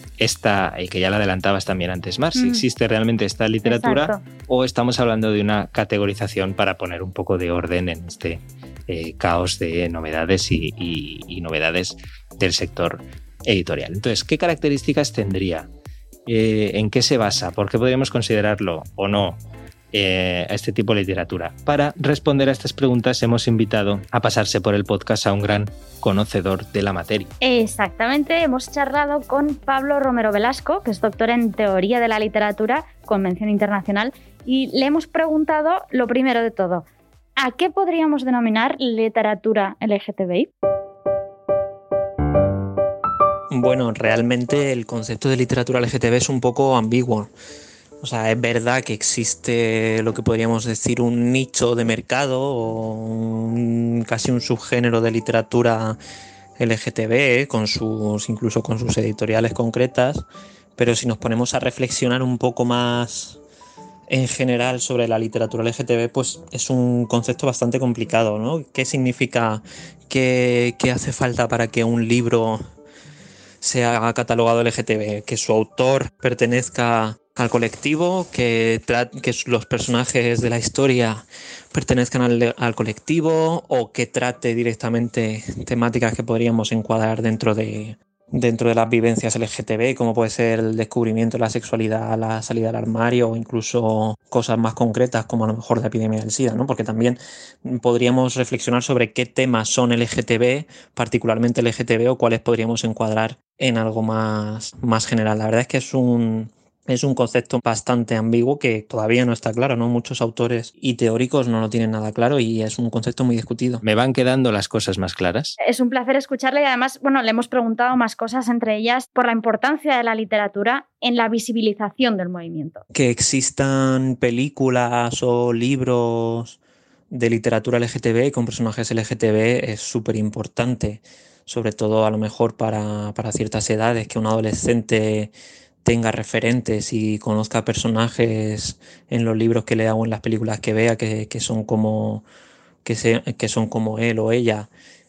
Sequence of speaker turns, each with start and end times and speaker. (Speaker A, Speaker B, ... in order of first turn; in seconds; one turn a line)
Speaker A: 0.2-15.7
Speaker B: 2.3-2.6
Speaker B: 3.6-4.2
Speaker A: 16.3-19.4
Speaker A: 19.9-27.3
Speaker B: 27.4-36.8
Speaker B: 37.4-40.5
Speaker C: 43.5-47.3
Speaker C: 48.0-56.0
Speaker C: 56.6-60.2
Speaker C: 60.8-63.4
Speaker C: 64.1-72.6
Speaker C: 73.6-113.8
Speaker A: 113.8-115.5
Speaker B: 115.6-122.8
Speaker C: 122.9-126.6
Speaker C: 127.1-135.3
Speaker C: 135.8-142.2
Speaker C: 142.8-144.7